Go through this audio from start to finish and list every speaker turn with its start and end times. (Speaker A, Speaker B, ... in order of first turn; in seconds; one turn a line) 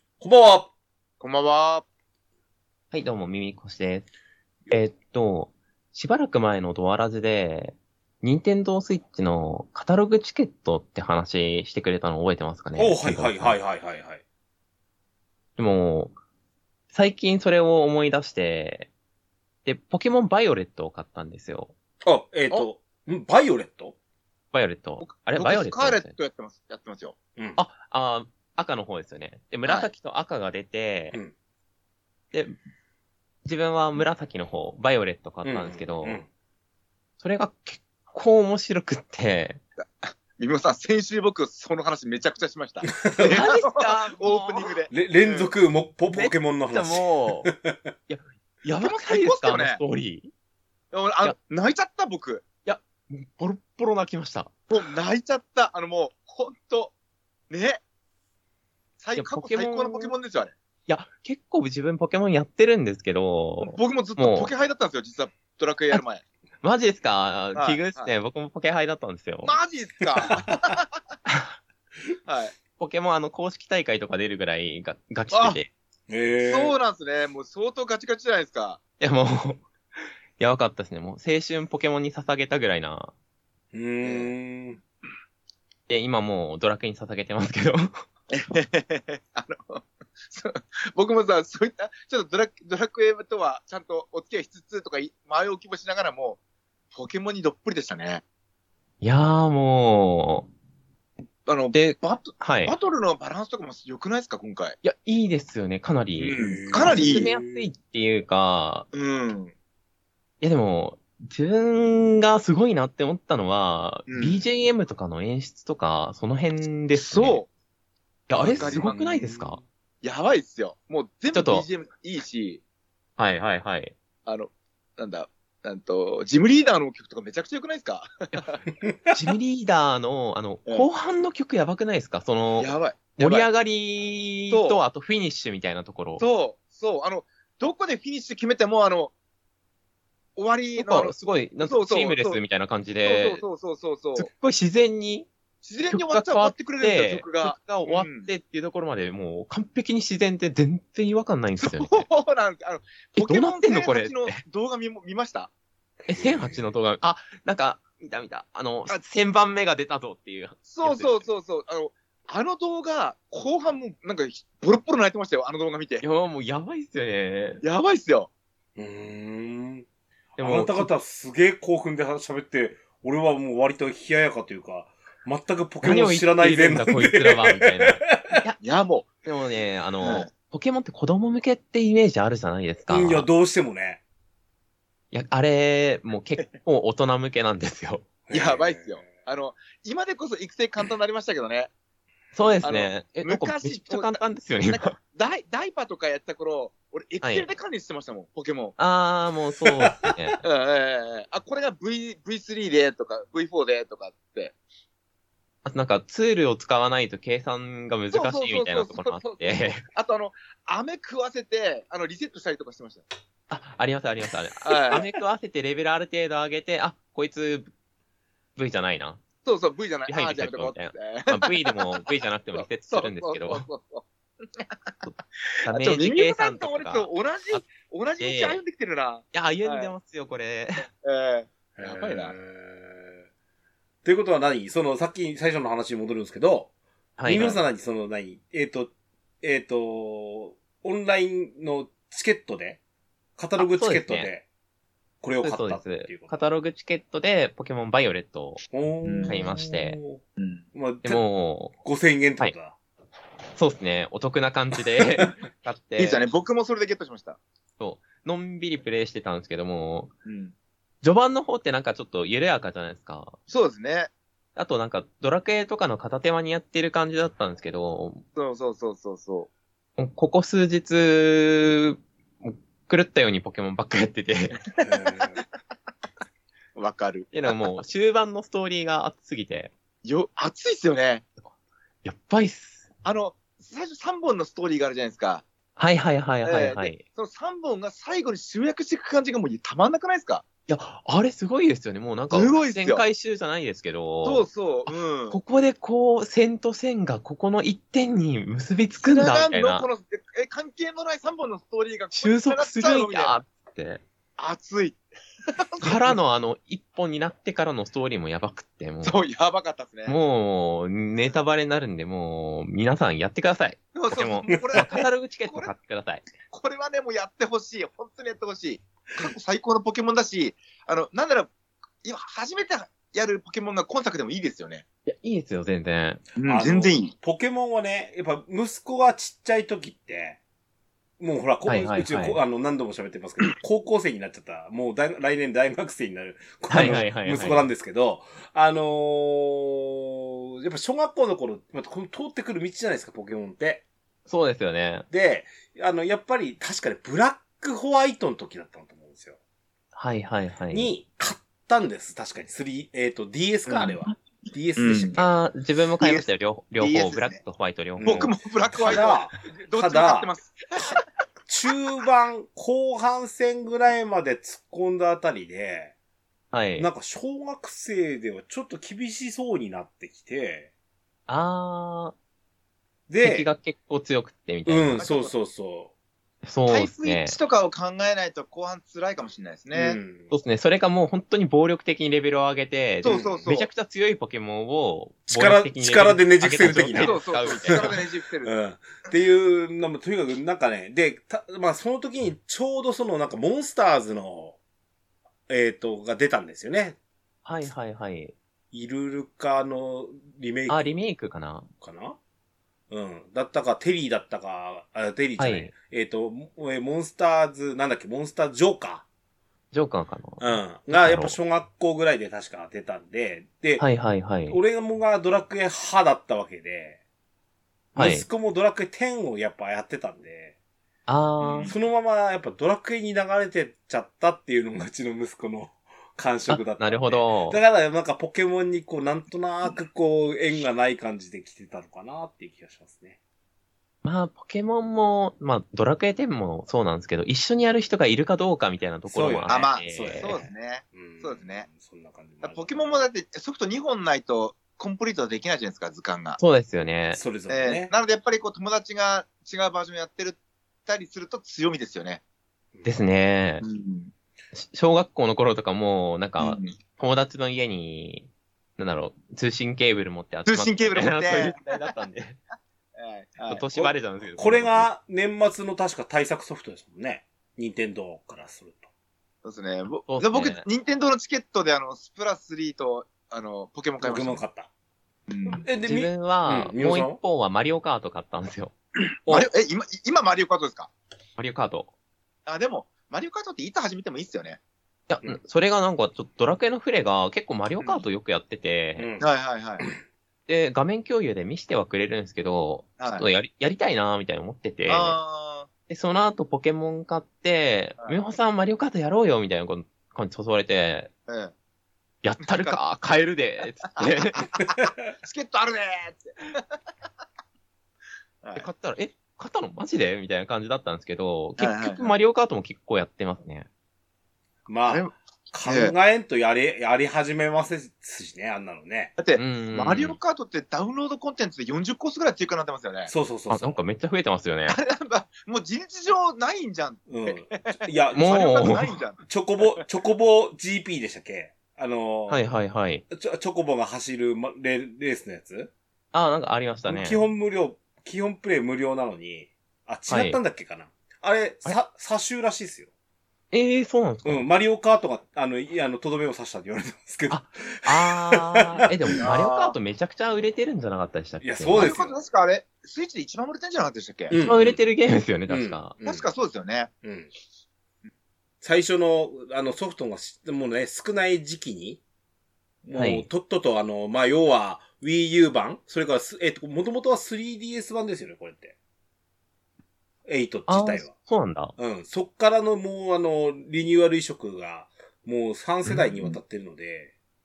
Speaker A: 0.2-0.7
Speaker B: 1.2-1.9
Speaker C: 2.9-4.1
Speaker C: 4.7-13.6
Speaker A: 12.8-14.2
Speaker C: 15.6-16.2
Speaker C: 16.9-18.9
Speaker C: 19.6-21.7
Speaker A: 22.0-24.0
Speaker C: 24.5-26.1
Speaker B: 25.0-27.2
Speaker C: 27.6-31.2
Speaker C: 33.5-36.2
Speaker A: 35.5-36.3
Speaker C: 37.2-39.6
Speaker B: 39.8-45.5
Speaker A: 42.8-43.5
Speaker C: 43.2-44.7
Speaker A: 44.9-47.8
Speaker C: 46.1-47.5
Speaker C: 48.1-50.3
Speaker B: 48.8-49.8
Speaker B: 50.9-52.5
Speaker C: 52.6-54.5
Speaker B: 54.7-56.9
Speaker B: 57.5-57.8
Speaker B: 59.0-60.5
Speaker C: 59.1-60.1
Speaker C: 60.9-64.5
Speaker B: 63.6-66.2
Speaker C: 66.6-69.6
Speaker B: 67.5-68.1
Speaker B: 69.4-70.9
Speaker A: 70.3-70.7
Speaker C: 71.3-71.5
Speaker B: 72.2-72.5
Speaker C: 72.8-75.7
Speaker B: 75.3-75.6
Speaker A: 76.1-76.7
Speaker B: 76.4-78.8
Speaker C: 79.0-83.1
Speaker A: 83.7-84.8
Speaker B: 84.0-84.3
Speaker C: 85.9-88.0
Speaker B: 88.3-96.4
Speaker B: 96.9-98.2
Speaker C: 99.0-100.5
Speaker B: 101.5-104.8
Speaker C: 101.7-102.8
Speaker C: 104.8-108.9
Speaker A: 106.2-107.7
Speaker B: 106.2-107.3
Speaker B: 108.9-109.5
Speaker C: 110.4-117.4
Speaker B: 114.1-114.4
Speaker B: 116.9-117.5
Speaker C: 118.3-119.6
Speaker A: 118.4-119.6
Speaker B: 118.4-119.0
Speaker B: 120.0-122.6
Speaker C: 121.3-121.7
Speaker C: 123.2-124.0
Speaker B: 124.3-128.6
Speaker A: 128.8-129.1
Speaker C: 129.1-136.2
Speaker B: 132.6-133.5
Speaker B: 134.5-134.8
Speaker B: 136.2-139.1
Speaker B: 140.4-142.4
Speaker C: 140.8-143.4
Speaker B: 143.1-144.3
Speaker C: 144.2-145.3
Speaker B: 145.6-148.3
Speaker C: 145.9-152.1
Speaker B: 151.6-155.5
Speaker C: 153.2-154.4
Speaker C: 156.1-161.3
Speaker A: 156.2-156.6
Speaker B: 160.7-166.1
Speaker C: 166.0-167.6
Speaker B: 167.6-168.3
Speaker A: 168.8-169.9
Speaker A: 170.4-178.3
Speaker C: 170.4-170.9
Speaker C: 175.8-178.6
Speaker B: 178.6-179.2
Speaker C: 179.2-183.3
Speaker B: 180.0-180.3
Speaker A: 182.9-184.0
Speaker C: 185.1-188.1
Speaker A: 188.3-189.1
Speaker B: 188.3-191.7
Speaker C: 192.3-195.0
Speaker B: 192.6-198.8
Speaker C: 197.2-197.5
Speaker C: 198.8-200.4
Speaker B: 200.4-204.5
Speaker C: 205.7-209.8
Speaker B: 208.1-213.1
Speaker C: 213.5-217.7
Speaker B: 214.7-215.0
Speaker C: 218.6-219.2
Speaker B: 219.4-224.9
Speaker C: 220.1-223.7
Speaker B: 225.6-229.9
Speaker C: 225.6-227.7
Speaker C: 228.2-228.6
Speaker C: 229.3-230.9
Speaker B: 230.9-232.3
Speaker A: 231.8-233.2
Speaker A: 234.0-236.7
Speaker C: 237.2-237.6
Speaker A: 237.2-242.8
Speaker A: 243.4-244.4
Speaker C: 243.6-244.3
Speaker A: 245.2-246.3
Speaker C: 245.4-248.7
Speaker A: 248.7-250.2
Speaker B: 249.1-249.4
Speaker C: 249.3-250.0
Speaker B: 250.4-250.6
Speaker A: 250.7-251.2
Speaker C: 251.1-251.7
Speaker A: 251.8-252.8
Speaker C: 253.6-256.2
Speaker B: 256.0-257.4
Speaker C: 257.8-260.1
Speaker B: 260.2-260.5
Speaker C: 261.0-263.4
Speaker B: 263.5-264.1
Speaker C: 264.6-268.2
Speaker B: 268.4-269.5
Speaker C: 270.0-274.6
Speaker A: 274.8-275.4
Speaker B: 276.8-277.4
Speaker C: 277.3-279.7
Speaker B: 280.0-281.2
Speaker C: 282.0-282.9
Speaker B: 283.0-285.4
Speaker C: 285.8-287.0
Speaker B: 286.4-290.4
Speaker C: 290.7-299.9
Speaker B: 292.3-293.0
Speaker B: 294.2-295.4
Speaker B: 299.0-303.4
Speaker C: 302.1-304.0
Speaker B: 304.4-305.0
Speaker B: 305.5-306.2
Speaker C: 305.8-309.2
Speaker B: 309.0-310.2
Speaker C: 310.1-316.3
Speaker B: 313.9-315.7
Speaker B: 316.5-321.5
Speaker B: 322.0-324.8
Speaker C: 325.1-326.2
Speaker B: 326.4-327.1
Speaker A: 326.4-330.4
Speaker A: 331.2-343.9
Speaker C: 331.6-332.4
Speaker C: 336.7-337.7
Speaker C: 344.3-345.1
Speaker A: 345.1-349.4
Speaker C: 349.9-350.9
Speaker A: 350.7-355.3
Speaker B: 353.7-354.0
Speaker B: 354.8-355.2
Speaker C: 355.2-358.9
Speaker A: 356.0-356.3
Speaker B: 356.8-357.4
Speaker A: 358.0-360.3
Speaker B: 358.0-361.0
Speaker A: 361.5-365.9
Speaker C: 366.5-366.9
Speaker A: 366.8-370.7
Speaker C: 371.3-372.1
Speaker A: 373.1-373.5
Speaker C: 373.2-375.0
Speaker A: 374.7-375.9
Speaker B: 374.9-375.3
Speaker C: 376.4-377.4
Speaker B: 376.7-380.0
Speaker A: 379.7-380.3
Speaker C: 380.3-387.9
Speaker B: 383.0-383.7
Speaker A: 383.1-383.4
Speaker A: 385.3-394.6
Speaker B: 386.9-388.5
Speaker A: 395.5-397.0
Speaker C: 397.4-398.3
Speaker A: 398.7-400.9
Speaker C: 400.7-401.7
Speaker A: 401.8-402.2
Speaker A: 402.9-409.1
Speaker C: 405.4-405.7
Speaker C: 409.7-411.4
Speaker A: 410.4-413.9
Speaker C: 413.8-414.6
Speaker A: 414.5-417.0
Speaker A: 417.9-420.6
Speaker C: 417.9-418.3
Speaker C: 421.1-421.7
Speaker B: 421.5-421.7
Speaker A: 421.6-433.2
Speaker C: 426.5-427.6
Speaker C: 434.0-440.4
Speaker A: 439.1-442.9
Speaker B: 439.5-441.7
Speaker B: 442.4-446.4
Speaker C: 446.4-447.2
Speaker A: 447.1-447.9
Speaker B: 447.5-452.2
Speaker C: 452.8-453.6
Speaker B: 453.6-454.1
Speaker C: 454.5-462.4
Speaker B: 456.4-456.7
Speaker B: 460.5-461.9
Speaker B: 463.0-463.6
Speaker C: 463.5-464.9
Speaker A: 463.7-468.9
Speaker B: 469.4-474.4
Speaker C: 470.1-470.7
Speaker A: 474.0-474.7
Speaker B: 475.3-475.6
Speaker A: 475.5-477.2
Speaker C: 475.8-478.7
Speaker B: 479.3-480.9
Speaker C: 481.4-481.9
Speaker B: 482.5-484.6
Speaker C: 485.1-489.1
Speaker A: 489.0-489.3
Speaker B: 489.2-489.9
Speaker C: 490.5-495.2
Speaker B: 493.0-493.3
Speaker B: 494.9-495.7
Speaker C: 495.9-501.1
Speaker B: 501.3-501.5
Speaker C: 502.2-504.5
Speaker B: 502.4-502.8
Speaker B: 504.0-506.6
Speaker B: 508.4-508.7
Speaker C: 508.6-513.7
Speaker B: 511.6-512.1
Speaker A: 514.7-519.1
Speaker B: 514.9-515.1
Speaker B: 515.6-516.0
Speaker B: 519.2-523.1
Speaker C: 519.4-520.2
Speaker A: 523.1-523.8
Speaker C: 523.5-524.8
Speaker B: 524.7-529.2
Speaker A: 527.1-532.5
Speaker C: 528.1-528.9
Speaker C: 532.3-533.0
Speaker A: 533.1-535.7
Speaker C: 536.1-537.2
Speaker A: 536.9-542.9
Speaker C: 540.1-540.4
Speaker C: 543.5-544.5
Speaker A: 544.2-549.2
Speaker C: 547.3-552.0
Speaker B: 549.2-549.8
Speaker A: 551.4-552.1
Speaker B: 551.8-554.3
Speaker A: 554.3-554.8
Speaker C: 554.3-555.9
Speaker A: 555.5-556.2
Speaker B: 556.0-556.9
Speaker A: 557.0-557.3
Speaker A: 558.6-562.0
Speaker A: 562.8-568.8
Speaker C: 563.0-563.3
Speaker A: 570.3-571.1
Speaker C: 570.7-571.7
Speaker A: 571.8-577.1
Speaker B: 575.9-576.4